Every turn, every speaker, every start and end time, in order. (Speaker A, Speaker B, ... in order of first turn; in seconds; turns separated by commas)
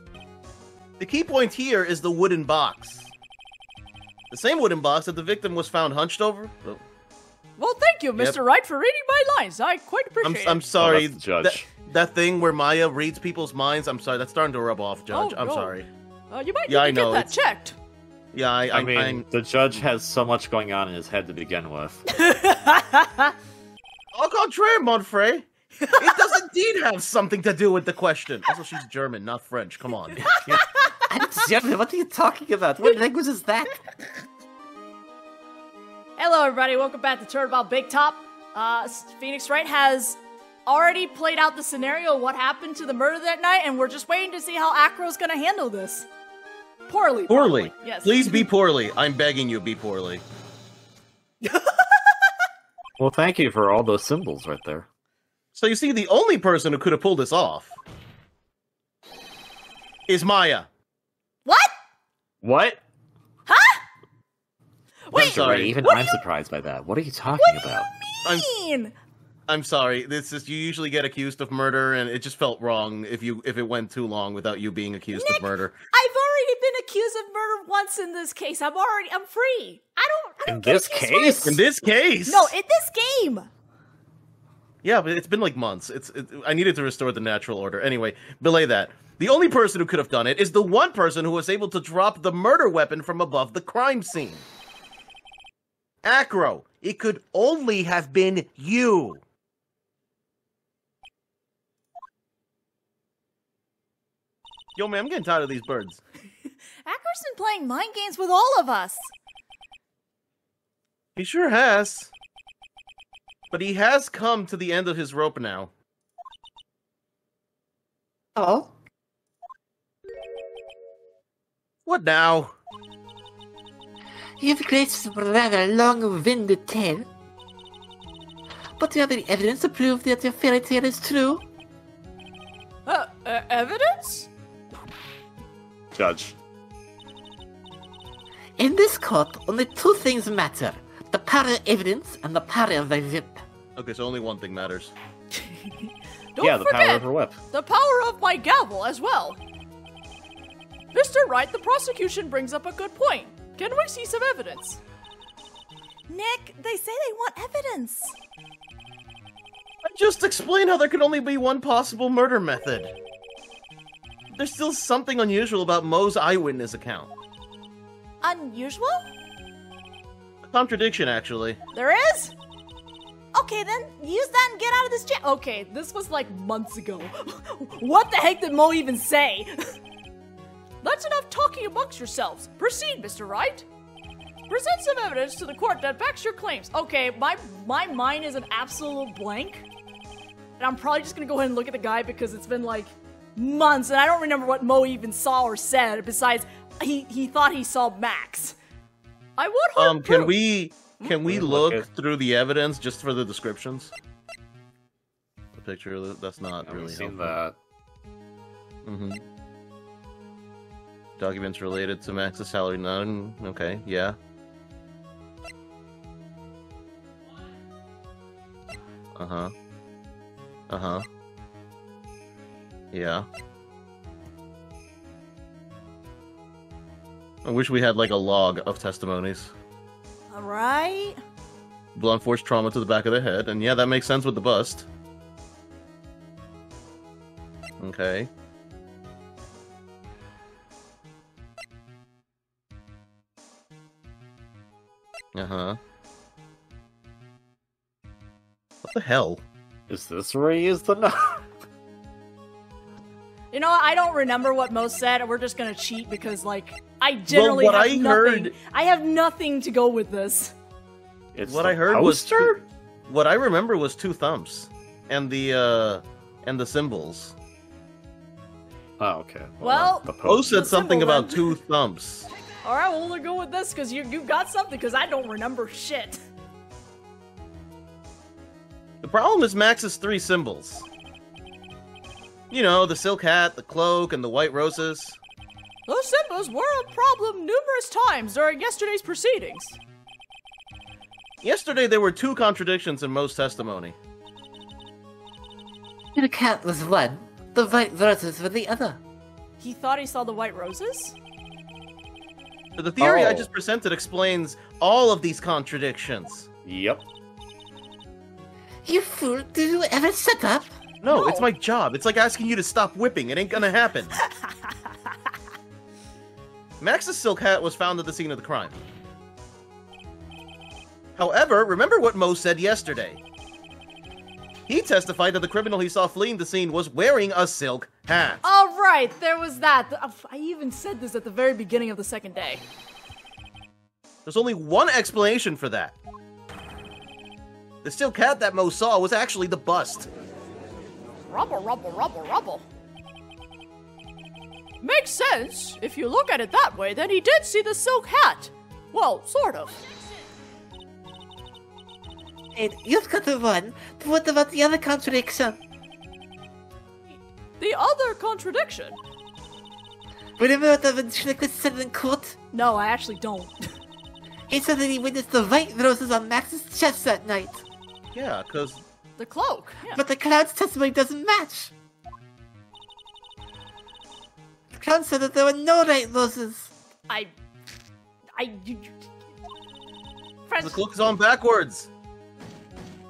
Speaker A: 1.0-3.1, Speaker A: 4.3-6.8, Speaker B: 7.6-10.6, Speaker A: 10.2-15.9, Speaker C: 10.8-11.7, Speaker B: 15.1-15.7, Speaker B: 16.3-17.8, Speaker A: 16.7-17.3, Speaker A: 18.3-19.2, Speaker C: 18.7-22.1, Speaker B: 22.1-23.3, Speaker A: 24.1-30.6, Speaker B: 25.8-26.4, Speaker B: 30.2-31.3, Speaker D: 30.4-34.1, Speaker B: 36.2-46.1, Speaker B: 46.9-48.5, Speaker A: 47.3-50.2, Speaker B: 51.4-52.1, Speaker C: 53.0-54.9, Speaker A: 55.5-57.8, Speaker A: 60.1-60.7, Speaker B: 61.5-61.7, Speaker C: 62.4-62.8, Speaker B: 63.5-63.8, Speaker B: 65.1-66.2, Speaker A: 65.1-65.8, Speaker C: 65.1-67.9, Speaker B: 67.4-69.0, Speaker A: 69.5-75.8, Speaker B: 75.1-81.5, Speaker C: 80.5-81.6, Speaker A: 81.4-82.5, Speaker B: 82.2-83.5, Speaker A: 84.8-94.4, Speaker A: 96.0-99.2, Speaker A: 104.8-106.0, Speaker B: 106.8-109.1, Speaker A: 111.2-112.1, Speaker A: 113.5-115.7, Speaker D: 118.3-118.7, Speaker A: 121.8-122.5, Speaker D: 124.4-127.1, Speaker D: 128.8-131.4, Speaker B: 132.8-134.3, Speaker C: 135.9-136.4, Speaker D: 138.6-143.4, Speaker A: 143.8-144.9, Speaker B: 145.3-149.4, Speaker C: 146.4-147.4, Speaker B: 150.9-154.8, Speaker B: 156.1-158.2, Speaker A: 159.8-162.9, Speaker A: 164.3-167.1, Speaker B: 168.2-169.1, Speaker A: 170.5-171.6, Speaker B: 171.7-172.3, Speaker B: 173.3-179.7, Speaker B: 180.8-183.7, Speaker B: 184.5-189.7, Speaker B: 190.6-198.6, Speaker B: 199.4-200.3, Speaker A: 199.8-203.9, Speaker C: 201.2-201.9, Speaker A: 205.5-207.4, Speaker C: 206.6-207.6, Speaker A: 208.8-209.2, Speaker A: 211.2-214.2, Speaker A: 219.2-219.5, Speaker A: 220.7-221.0, Speaker A: 222.9-223.2, Speaker A: 227.4-229.5, Speaker B: 230.3-231.2, Speaker A: 231.9-234.9, Speaker A: 237.8-238.3, Speaker A: 245.3-245.8, Speaker A: 248.8-249.4, Speaker C: 249.9-251.5, Speaker B: 253.5-260.5, Speaker A: 257.3-258.6, Speaker C: 261.3-262.6, Speaker A: 261.4-267.4, Speaker C: 269.0-270.6, Speaker B: 269.6-271.6, Speaker A: 270.2-272.3, Speaker B: 272.6-276.2, Speaker A: 279.0-280.9, Speaker A: 282.5-285.2, Speaker B: 285.9-289.8, Speaker A: 291.4-293.9, Speaker D: 296.1-299.0, Speaker B: 299.6-301.1, Speaker A: 302.8-306.5, Speaker C: 303.0-303.5, Speaker C: 306.6-307.0, Speaker D: 308.8-310.7, Speaker A: 311.0-314.2, Speaker B: 311.1-311.5, Speaker B: 314.4-314.7, Speaker A: 316.8-318.8, Speaker A: 321.2-323.2, Speaker A: 324.7-328.4, Speaker B: 328.4-332.6, Speaker A: 334.2-335.9, Speaker A: 337.8-340.1, Speaker B: 341.3-342.6, Speaker B: 344.8-349.9, Speaker D: 352.5-355.6, Speaker B: 357.6-359.0, Speaker D: 360.4-362.4, Speaker B: 362.5-363.7, Speaker D: 364.5-367.6, Speaker A: 368.1-368.8, Speaker B: 369.2-370.0, Speaker D: 369.9-371.7, Speaker D: 374.7-376.7, Speaker B: 378.4-379.0, Speaker B: 380.5-380.8, Speaker A: 380.6-381.9